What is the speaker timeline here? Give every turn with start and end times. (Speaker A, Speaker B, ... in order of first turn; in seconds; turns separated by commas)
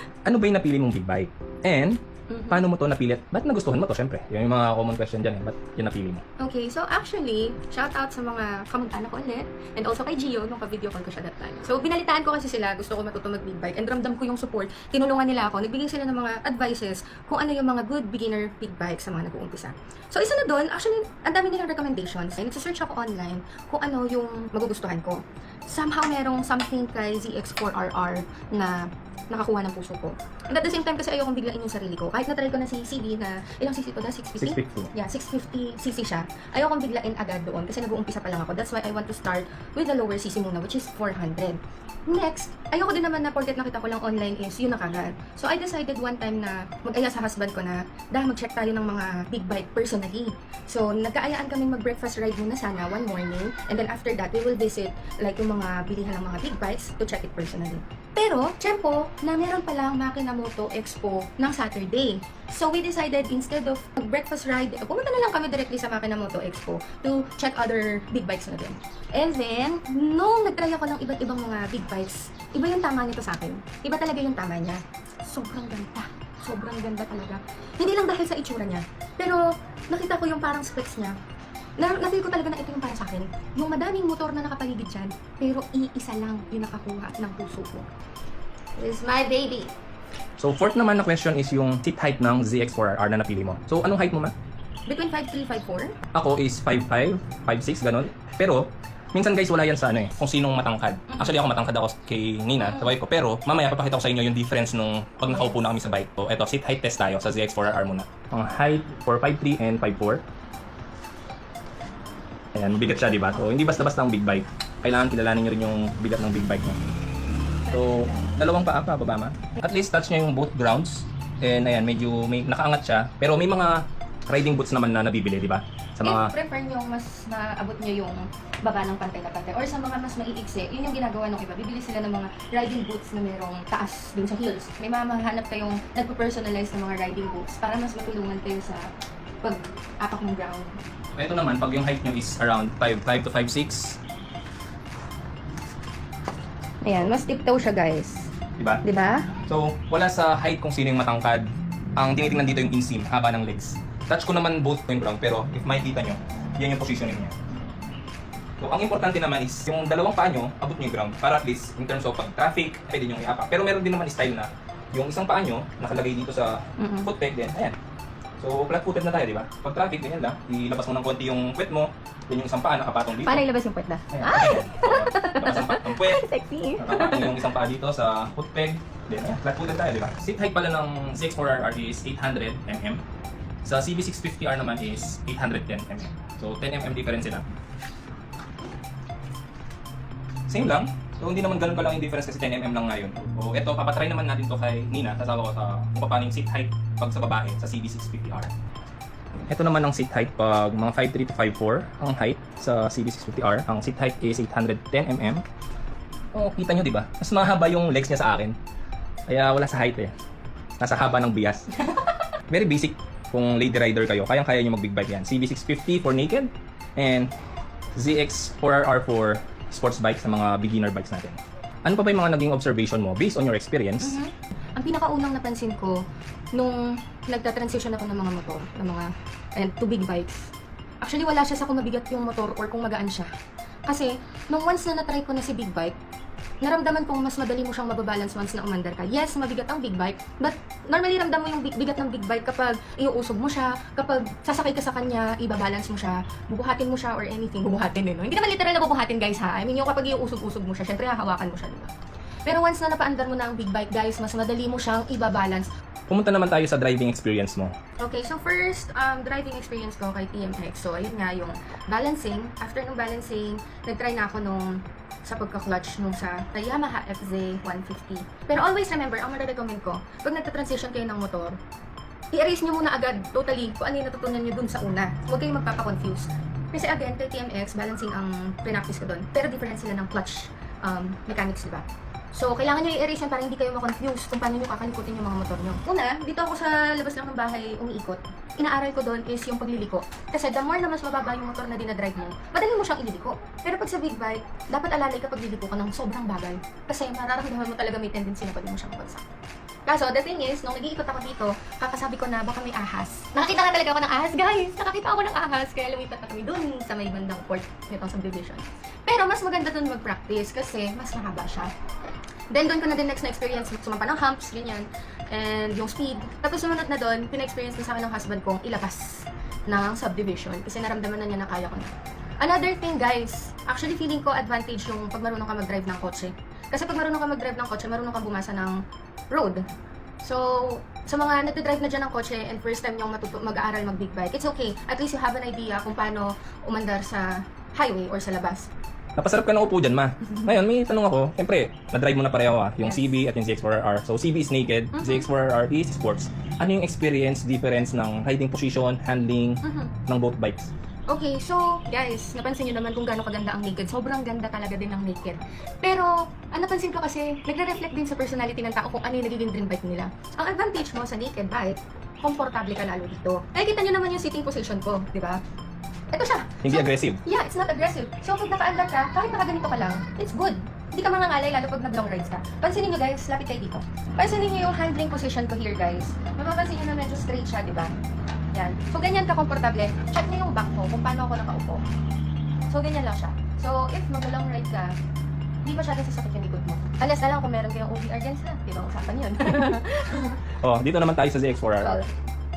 Speaker A: 0.2-6.2, Speaker B: 2.3-2.7, Speaker B: 6.4-81.2, Speaker A: 34.4-34.9, Speaker B: 81.8-87.9, Speaker B: 88.8-89.7, Speaker A: 90.4-94.3, Speaker B: 94.9-96.0, Speaker A: 96.1-110.3, Speaker B: 102.6-102.9, Speaker B: 105.3-105.6, Speaker A: 112.5-116.8, Speaker A: 117.7-126.3, Speaker B: 126.0-140.8, Speaker A: 141.1-144.0, Speaker B: 146.8-148.3, Speaker B: 148.8-149.3, Speaker A: 149.5-157.3, Speaker A: 158.6-167.8, Speaker B: 166.8-167.1, Speaker A: 168.4-173.5, Speaker B: 173.2-177.5, Speaker A: 174.1-176.2, Speaker A: 176.8-183.0, Speaker A: 183.6-187.5, Speaker A: 190.5-198.5, Speaker A: 199.5-205.4, Speaker A: 206.3-208.6, Speaker A: 209.3-210.1, Speaker A: 210.8-211.8, Speaker A: 212.5-217.3, Speaker A: 217.9-224.2, Speaker B: 224.0-233.3, Speaker B: 233.9-236.0, Speaker B: 236.6-251.9, Speaker B: 252.5-255.7, Speaker A: 256.1-257.8, Speaker B: 258.0-271.6, Speaker B: 272.3-299.3, Speaker B: 299.9-311.7, Speaker B: 312.5-328.8, Speaker B: 329.3-329.6, Speaker B: 330.2-338.7, Speaker A: 339.2-350.7, Speaker B: 344.9-345.3, Speaker B: 349.6-349.9, Speaker B: 351.1-365.4, Speaker B: 366.1-378.0, Speaker A: 366.6-367.2, Speaker B: 378.5-381.9, Speaker B: 382.7-385.0, Speaker B: 385.6-390.5, Speaker A: 390.6-392.0, Speaker B: 391.8-392.2